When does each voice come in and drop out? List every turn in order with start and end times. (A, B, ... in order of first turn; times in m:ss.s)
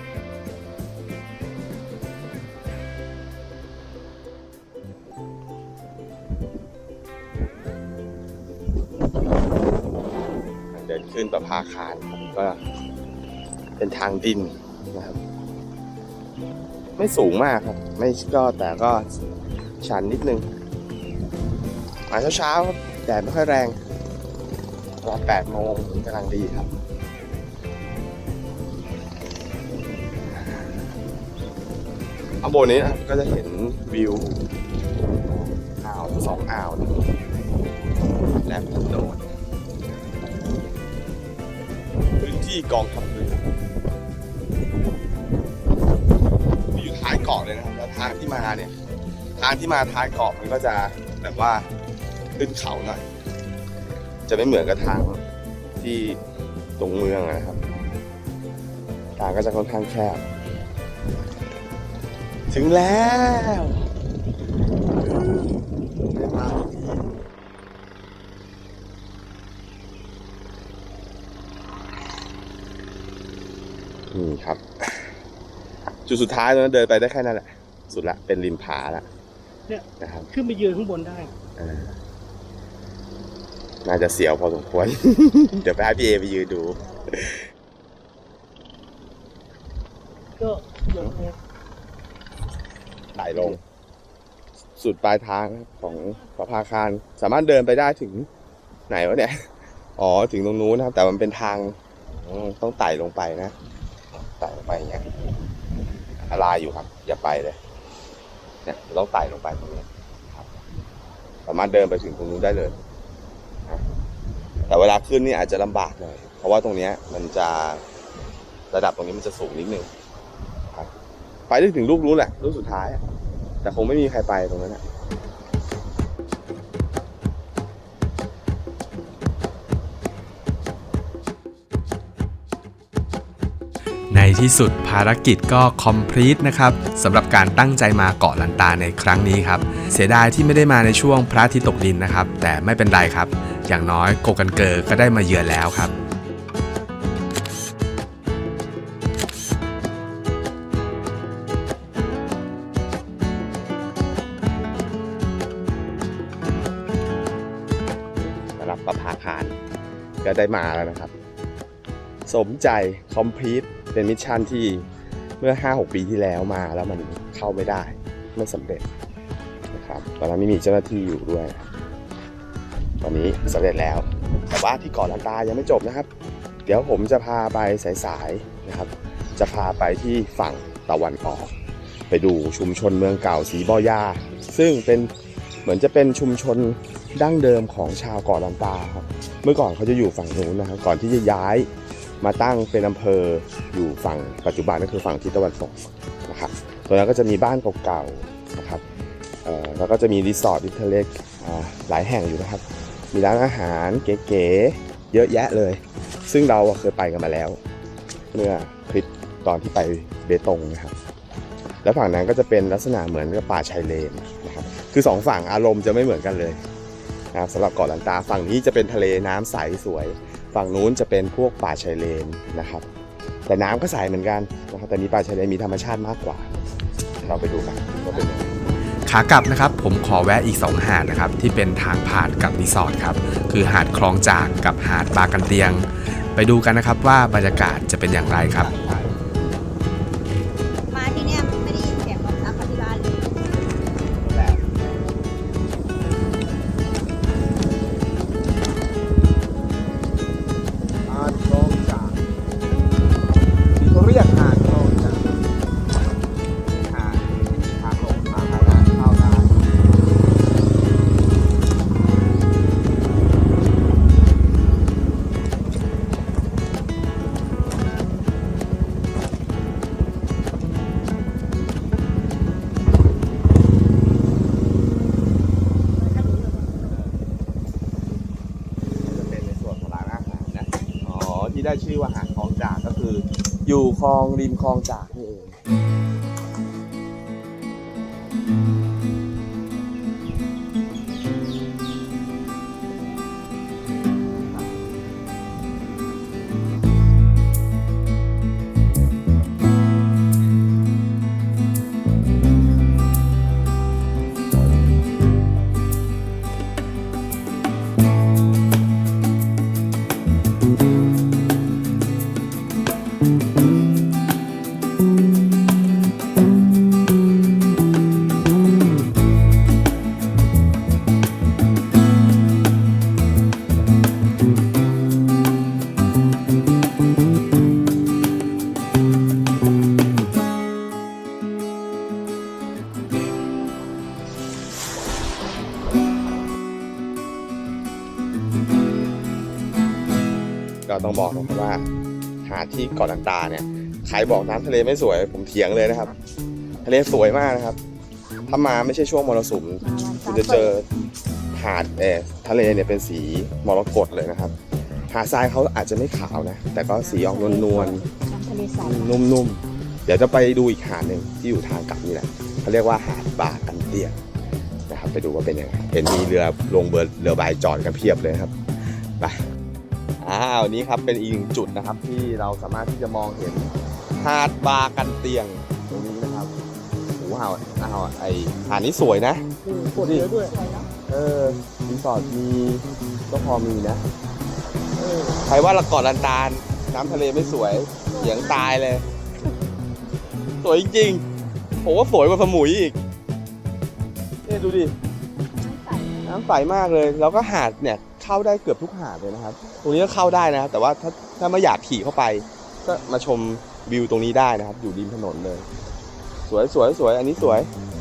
0:10.7-0:12.6 A
0:13.8-0:15.2 A
0:17.0-0:19.0 A
0:19.8-0:20.5 A
0:22.1-0:23.8 A
0:25.0-0:26.8 A
0:30.3-0:30.9 A
0:32.4-0:34.4 A
0:35.3-0:36.9 A
0:38.4-0:39.3 A
0:42.2-0:43.5 A
0:46.7-0:48.7 A
0:49.4-0:51.7 A
0:52.4-0:53.0 A
0:54.3-0:55.2 A
0:55.8-0:56.2 A
0:56.8-0:57.6 A
0:59.2-1:00.2 A
1:02.5-1:03.9 A
1:05.0-1:07.0 A
1:14.1-1:15.1 A
1:16.1-1:19.1 A
1:19.7-1:21.3 B
1:20.0-1:20.3 A
1:21.6-1:22.0 A
1:23.8-1:27.5 A
1:30.4-1:31.3 B
1:33.2-1:33.6 A
1:34.8-1:38.3 A
1:38.9-1:43.6 A
1:44.4-1:45.1 A
1:46.2-1:47.6 A
1:48.6-1:50.5 A
1:51.5-1:52.8 A
1:54.7-1:57.8 A
1:58.7-1:59.9 A
2:01.5-2:03.0 A
2:03.6-2:04.8 A
2:14.1-2:25.9 C
2:38.6-2:39.6 A
2:40.2-2:41.1 A
2:42.3-2:44.9 A
2:45.4-2:48.9 A
2:49.7-2:51.6 A
2:53.0-2:56.1 A
2:56.7-3:01.5 A
3:02.1-3:05.1 A
3:05.6-3:11.7 A
3:12.2-3:18.8 A
3:19.4-3:27.6 A
3:28.3-3:31.0 A
3:31.8-3:36.6 A
3:37.3-3:42.9 A
3:43.5-3:46.5 A
3:47.2-3:48.5 A
3:49.1-3:58.7 C
3:58.5-3:59.2 A
4:00.9-4:03.5 D
4:04.2-4:04.7 A
4:11.1-4:12.2 A
4:13.8-4:15.3 A
4:16.7-4:19.6 A
4:36.0-4:36.9 D
4:39.0-4:45.6 A
5:40.9-5:41.9 A
5:42.4-5:46.1 A
5:46.8-5:47.8 A
5:48.5-5:50.8 A
5:49.9-5:50.7 D
5:51.6-5:54.6 A
5:55.1-5:58.0 A
5:57.0-5:59.1 D
5:58.8-6:04.2 A
6:04.9-6:08.6 A
6:10.2-6:16.6 A
6:17.2-6:19.4 A
6:19.6-6:20.6 B
6:20.0-6:20.3 A
6:20.4-6:20.9 D
6:21.1-6:24.0 A
6:25.0-6:29.0 A
6:28.1-6:28.7 D
6:30.6-6:31.2 A
6:31.8-6:33.0 A
6:34.4-6:35.0 A
6:35.6-6:36.3 D
6:36.2-6:45.7 A
6:46.5-6:47.7 A